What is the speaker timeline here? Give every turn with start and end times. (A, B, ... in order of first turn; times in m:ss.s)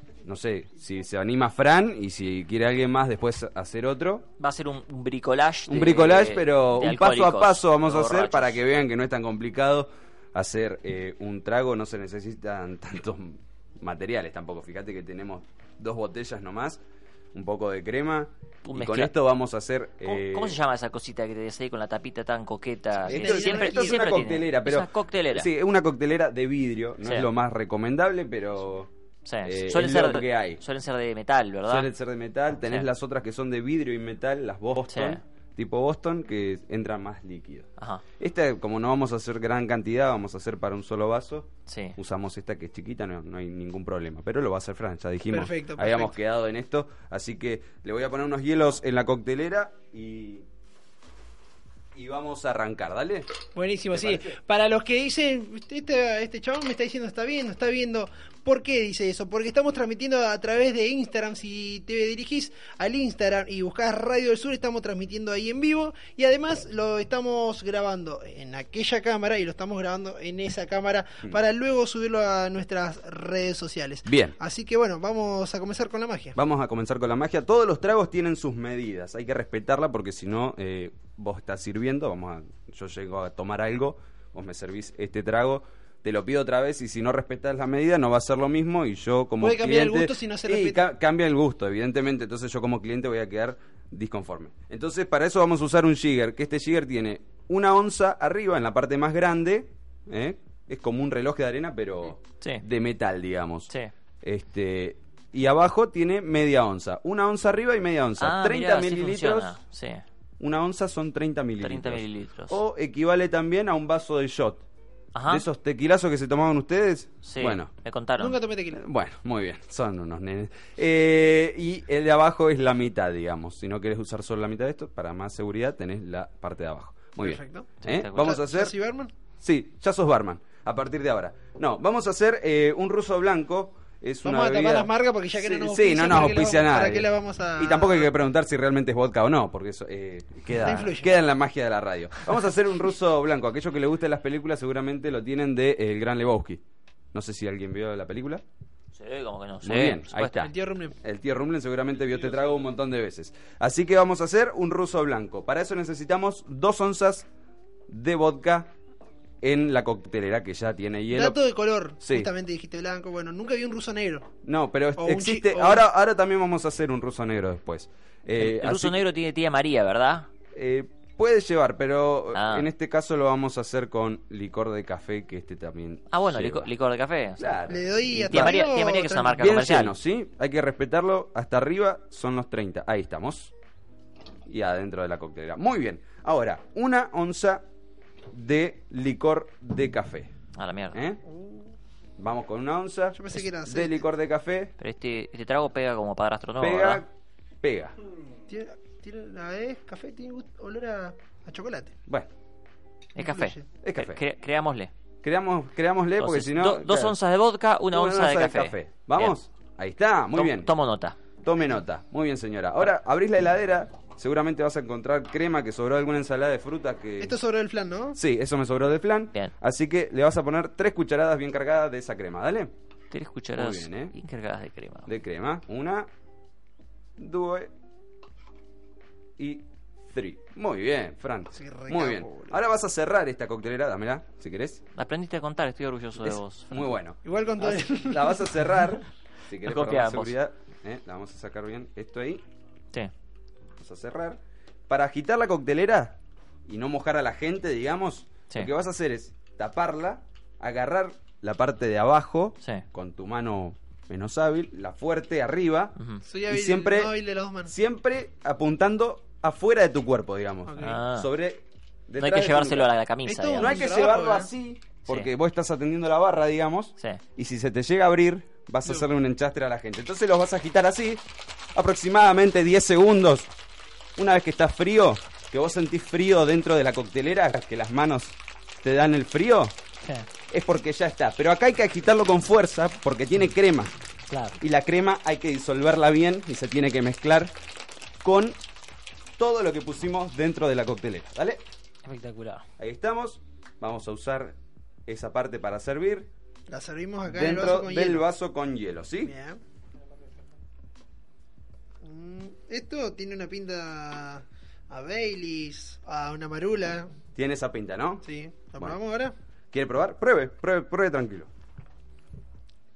0:00.2-0:04.3 A
0:04.4-0:08.6 B
0:05.7-0:16.8 A
0:17.3-0:20.6 A
0:18.6-0:19.1 B
0:20.0-0:25.5 B
0:23.0-0:24.1 C
0:23.0-0:28.9 A
0:27.0-0:27.3 B
0:29.2-0:31.9 B
0:29.4-0:30.6 A
0:31.7-0:50.4 A
0:34.9-0:35.2 B
0:37.8-0:38.0 B
0:41.7-0:42.0 B
0:45.3-0:46.1 C
0:51.9-0:53.3 A
0:53.5-1:16.4 C
0:53.9-0:54.3 A
1:14.0-1:14.4 A
1:16.3-1:43.7 A
1:29.4-1:30.8 C
1:44.2-1:49.5 A
1:48.2-1:50.0 B
1:50.4-1:54.6 A
1:51.6-1:52.6 B
1:55.1-1:55.4 B
1:55.3-1:57.7 A
1:57.2-1:58.4 B
1:58.2-1:58.8 C
1:58.8-2:08.7 A
2:07.2-2:09.1 C
2:07.8-2:08.3 B
2:09.4-2:26.6 A
2:14.2-2:18.1 C
2:20.6-2:21.1 C
2:27.1-2:28.4 A
2:28.9-2:30.4 B
2:29.6-2:37.2 A
2:30.4-2:30.9 C
2:37.9-2:38.7 A
2:39.4-2:41.4 A
2:41.1-2:44.3 C
2:42.0-2:42.3 A
2:44.4-2:49.0 A
2:45.0-2:45.8 C
2:48.4-2:50.3 B
2:50.5-2:56.7 A
2:52.3-2:52.7 B
2:56.1-2:57.6 B
2:57.4-2:58.6 A
2:57.7-2:59.4 C
2:58.1-2:59.9 B
2:59.4-3:03.5 A
3:04.5-3:07.6 A
3:08.3-3:10.3 A
3:10.5-3:11.0 B
3:10.9-3:11.2 A
3:11.2-3:11.7 C
3:12.2-3:14.7 A
3:13.1-3:14.0 C
3:14.8-3:17.0 B
3:16.6-3:17.1 A
3:17.6-3:18.0 A
3:18.5-3:21.9 C
3:23.2-3:23.6 C
3:23.2-3:24.9 B
3:23.8-3:24.2 A
3:25.2-3:27.1 A
3:26.2-3:29.3 B
3:27.9-3:30.7 A
3:30.3-3:31.2 B
3:31.4-3:37.4 A
3:37.2-3:38.2 C
3:38.1-3:42.7 A
3:43.1-3:45.1 B
3:43.6-3:44.1 A
3:45.1-3:46.1 A
3:47.2-3:47.7 A
3:49.4-3:54.8 A
3:51.5-3:52.5 C
3:54.9-3:56.9 B
3:56.2-4:02.4 A
3:57.2-3:58.8 C
3:59.6-4:00.3 B
4:03.8-4:16.0 A
4:16.0-4:16.2 B
4:16.2-4:17.7 C
4:16.5-4:17.1 A
4:17.7-4:22.9 A
4:20.7-4:21.0 C
4:20.8-4:21.3 B
4:22.2-4:23.9 B
4:23.2-4:24.5 C
4:23.6-4:31.2 A
4:31.7-4:33.5 A
4:34.2-4:39.7 A
4:40.5-4:43.9 A
4:44.3-4:44.6 B
4:44.6-4:47.5 A
4:48.2-4:48.6 A
4:49.4-4:51.6 A
4:52.0-4:52.6 B
4:52.8-4:54.5 A
4:55.1-4:56.3 A
4:56.7-4:58.2 C
4:57.3-4:59.3 A
4:59.2-4:59.6 C
5:02.0-5:07.1 C
5:07.3-5:08.2 A
5:08.2-5:09.3 C
5:09.7-5:11.5 A